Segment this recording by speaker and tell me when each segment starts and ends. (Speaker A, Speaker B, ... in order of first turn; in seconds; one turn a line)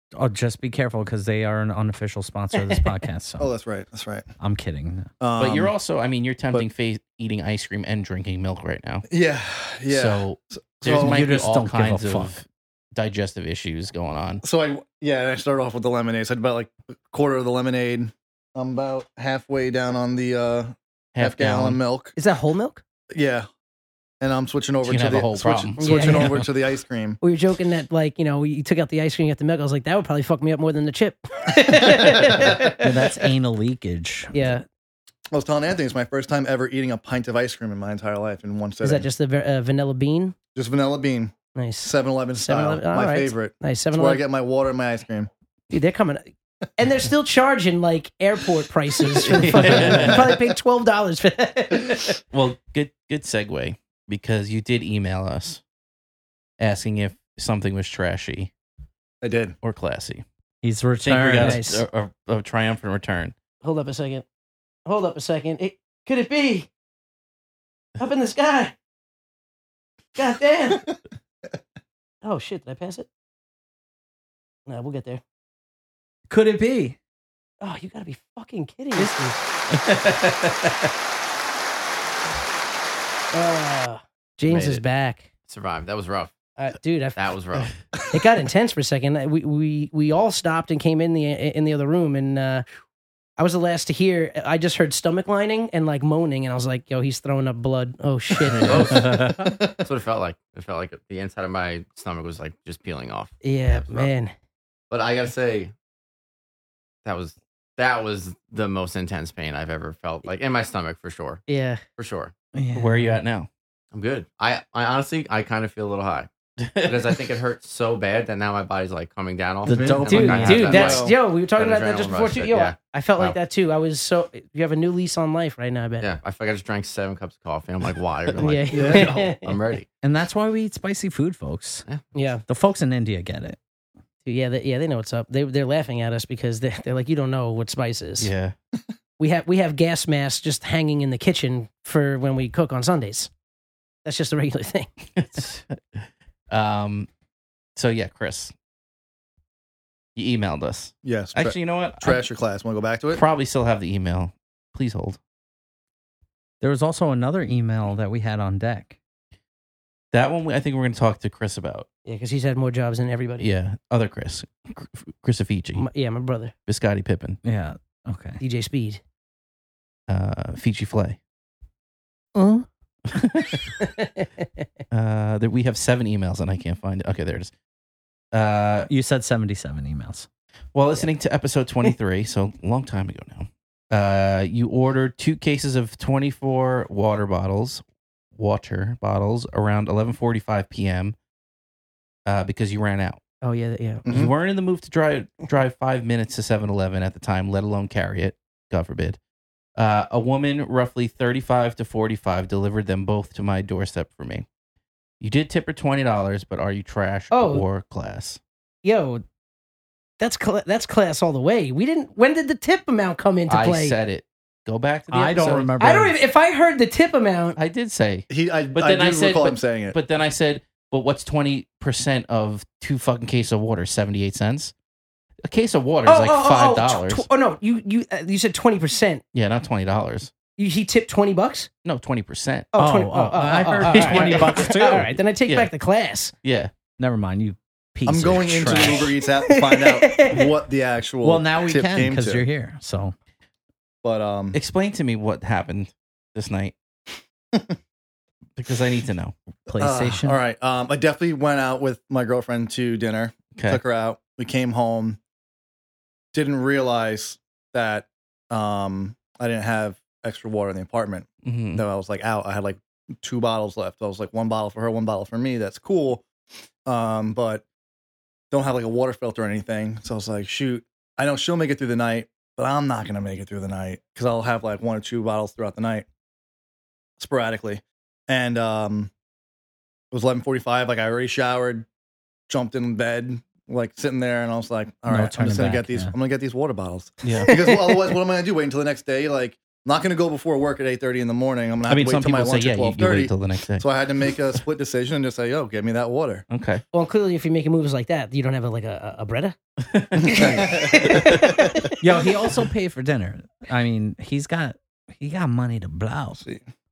Speaker A: 0.1-3.5
Speaker B: 3.4-4.3
Speaker A: 4.4-5.1
Speaker B: 5.2-5.7
Speaker C: 5.4-9.1
Speaker B: 9.1-11.2
Speaker C: 9.9-14.4
Speaker A: 10.9-12.4
Speaker B: 14.4-22.1
Speaker C: 21.1-21.8
Speaker D: 22.2-22.8
Speaker B: 23.1-23.5
Speaker B: 24.2-27.2
Speaker C: 24.8-26.3
Speaker D: 25.8-26.4
Speaker D: 27.2-32.9
Speaker B: 31.8-32.5
Speaker A: 32.8-34.5
Speaker D: 34.3-34.6
Speaker B: 35.3-39.1
Speaker D: 38.8-40.4
Speaker B: 40.5-45.3
Speaker D: 41.5-44.2
Speaker D: 45.7-46.2
Speaker D: 46.8-52.2
Speaker C: 49.2-50.4
Speaker B: 49.5-50.4
Speaker C: 52.3-55.6
Speaker C: 56.6-58.5
Speaker B: 59.2-59.6
Speaker C: 59.6-60.2
Speaker A: 60.6-61.6
Speaker C: 61.0-63.4
Speaker D: 61.4-61.8
Speaker D: 63.6-64.2
Speaker D: 64.9-66.7
Speaker D: 68.0-68.8
Speaker D: 70.2-70.9
Speaker D: 72.2-73.1
Speaker D: 74.7-75.2
Speaker A: 76.3-77.0
Speaker D: 77.6-79.4
Speaker C: 79.9-80.7
Speaker D: 83.3-85.3
Speaker E: 84.5-84.8
Speaker E: 85.5-86.3
Speaker D: 86.6-87.2
Speaker E: 87.2-87.8
Speaker D: 88.1-92.7
Speaker D: 93.4-98.9
Speaker C: 98.5-99.3
Speaker A: 98.9-99.4
Speaker B: 99.4-99.8
Speaker E: 99.8-104.1
Speaker D: 103.4-104.3
Speaker E: 104.9-105.7
Speaker E: 107.0-111.4
Speaker D: 111.5-111.8
Speaker E: 112.0-112.3
Speaker A: 112.5-113.2
Speaker C: 112.8-113.5
Speaker E: 113.9-116.3
Speaker C: 116.6-117.2
Speaker E: 116.8-123.4
Speaker A: 119.7-120.8
Speaker D: 120.1-126.1
Speaker B: 120.7-121.2
Speaker E: 126.0-129.9
Speaker D: 128.4-129.5
Speaker B: 128.7-129.3
Speaker A: 130.0-131.8
Speaker D: 132.1-132.4
Speaker A: 132.5-133.6
Speaker D: 134.2-138.3
Speaker C: 138.2-138.6
Speaker D: 139.2-143.3
Speaker D: 144.1-144.9
Speaker C: 145.2-147.1
Speaker C: 147.8-148.5
Speaker C: 150.2-152.2
Speaker B: 151.0-153.2
Speaker C: 153.1-155.2
Speaker A: 156.6-159.0
Speaker C: 160.1-161.9
Speaker D: 162.1-163.5
Speaker C: 163.4-165.9
Speaker D: 165.8-166.5
Speaker C: 166.7-167.4
Speaker A: 167.4-168.4
Speaker D: 168.4-169.0
Speaker C: 170.1-171.2
Speaker C: 172.4-173.7
Speaker D: 173.8-174.7
Speaker C: 174.9-177.5
Speaker C: 178.3-178.9
Speaker A: 178.9-180.3
Speaker C: 180.7-187.8
Speaker C: 188.3-191.2
Speaker C: 192.3-193.2
Speaker D: 193.4-194.1
Speaker B: 194.1-194.3
Speaker C: 194.1-199.2
Speaker C: 199.8-204.5
Speaker C: 205.2-208.4
Speaker D: 207.3-207.7
Speaker D: 208.8-209.2
Speaker D: 210.2-214.0
Speaker C: 213.5-215.8
Speaker A: 215.1-216.2
Speaker D: 215.4-217.6
Speaker C: 217.6-224.7
Speaker B: 218.3-220.0
Speaker C: 225.4-227.3
Speaker D: 226.1-229.2
Speaker C: 229.3-230.3
Speaker D: 230.6-231.7
Speaker C: 231.8-232.7
Speaker D: 232.7-236.3
Speaker A: 232.8-235.1
Speaker C: 233.8-234.6
Speaker C: 235.5-235.7
Speaker C: 236.4-236.7
Speaker A: 237.0-239.1
Speaker B: 238.1-242.5
Speaker D: 239.5-240.5
Speaker A: 241.2-243.1
Speaker B: 244.0-244.6
Speaker C: 244.5-246.8
Speaker C: 248.6-249.3
Speaker A: 249.7-250.4
Speaker B: 249.7-255.2
Speaker C: 253.6-253.8
Speaker B: 256.3-266.2
Speaker C: 261.4-261.8
Speaker B: 266.9-267.6
Speaker B: 268.5-276.1
Speaker B: 277.2-279.1
Speaker B: 280.1-281.9
Speaker B: 282.5-296.4
Speaker A: 285.1-286.1
Speaker C: 287.2-287.5
Speaker D: 287.5-288.1
Speaker C: 291.9-293.9
Speaker C: 296.5-296.8
Speaker D: 296.9-299.6
Speaker C: 299.8-301.5
Speaker B: 300.2-301.7
Speaker D: 300.2-301.9
Speaker A: 302.0-306.4
Speaker B: 306.4-306.6